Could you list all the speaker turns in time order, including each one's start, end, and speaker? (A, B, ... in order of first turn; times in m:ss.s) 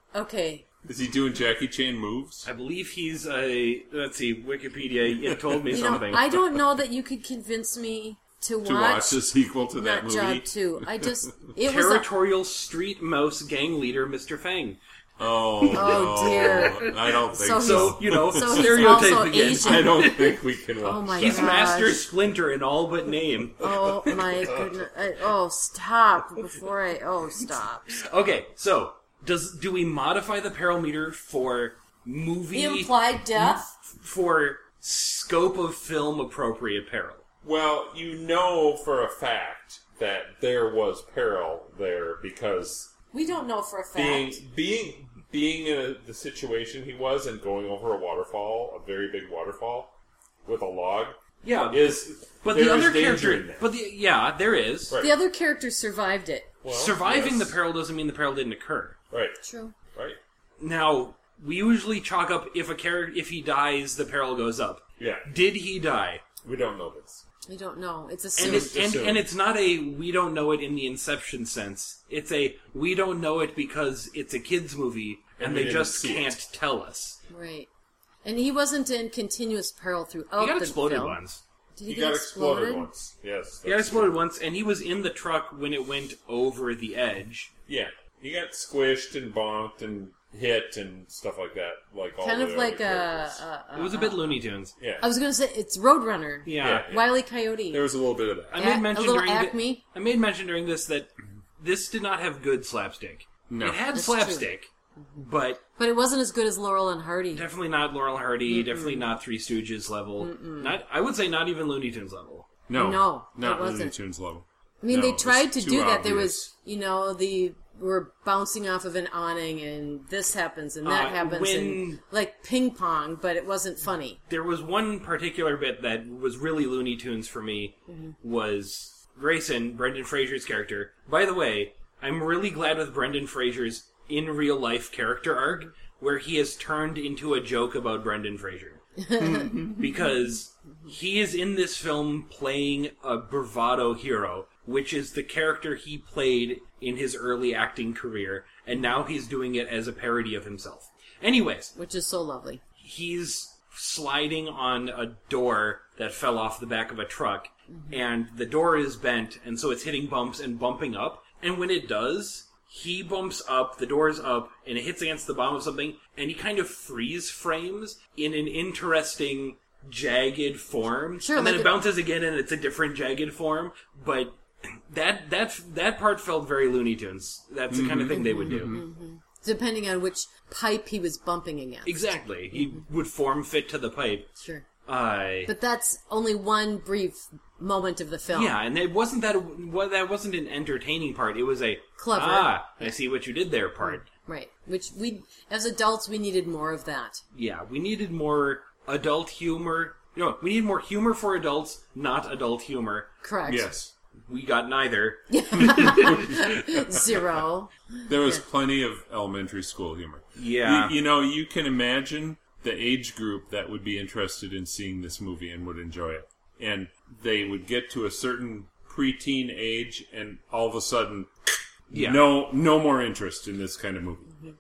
0:00.1-0:00.7 A
0:00.8-0:02.4 B
0:02.4-0:06.2 C
0:05.7-0:12.1 A
0:08.6-0:11.2 B
0:11.6-0:14.8 C
0:15.2-0:21.7 B
0:15.6-0:20.4 C
0:15.7-0:20.1 A
0:20.8-0:22.0 A
0:21.1-0:24.3 C
0:23.6-0:28.0 A
0:23.7-0:24.8 B
0:27.9-0:37.2 C
0:32.5-0:33.7 A
0:37.4-0:42.9 B
0:43.1-0:44.4 A
0:44.0-0:49.9 B
0:50.4-0:53.7 B
0:51.4-0:55.0 C
0:54.9-0:55.1 B
0:55.0-0:56.5 A
0:56.6-0:57.6 B
0:56.7-0:59.0 C
0:59.1-0:59.4 B
0:59.4-0:59.7 A
0:59.9-1:00.2 B
1:00.6-1:06.2 C
1:05.0-1:05.2 B
1:06.4-1:07.2 B
1:07.5-1:08.8 A
1:08.4-1:17.2 C
1:08.4-1:09.3 B
1:15.4-1:16.4 B
1:17.3-1:17.7 A
1:18.2-1:21.2 A
1:20.4-1:21.4 C
1:21.8-1:22.9 A
1:21.8-1:24.2 B
1:23.6-1:27.5 C
1:27.7-1:33.4 B
1:32.2-1:34.4 A
1:33.8-1:34.7 C
1:34.8-1:35.0 B
1:35.0-1:37.9 A
1:36.4-1:36.9 C
1:36.6-1:37.2 B
1:37.7-1:38.6 B
1:38.5-1:45.6 C
1:38.5-1:39.8 A
1:43.5-1:43.8 B
1:43.9-1:44.5 A
1:45.8-1:47.4 A
1:47.3-1:52.6 C
1:48.5-1:49.1 A
1:50.2-1:50.8 A
1:52.7-1:56.5 B
1:52.7-1:53.9 A
1:54.8-2:04.2 A
2:00.8-2:02.0 C
2:04.3-2:18.8 C
2:07.9-2:08.1 A
2:19.0-2:19.6 A
2:19.2-2:19.9 B
2:19.6-2:31.7 C
2:31.7-2:32.6 A
2:32.8-2:58.8 C
2:37.7-2:38.0 A
2:51.2-2:51.8 A
2:57.7-2:58.8 B
2:58.1-3:02.8 A
3:01.8-3:04.3 C
3:04.4-3:04.7 A
3:04.8-3:05.5 C
3:05.4-3:08.6 A
3:08.3-3:14.0 C
3:12.0-3:13.0 A
3:13.8-3:17.2 A
3:17.3-3:23.1 C
3:23.2-3:23.7 A
3:23.5-3:23.9 B
3:24.3-3:26.3 C
3:25.3-3:28.4 A
3:25.6-3:27.4 B
3:28.1-3:44.3 B
3:30.4-3:30.9 C
3:41.9-3:42.2 C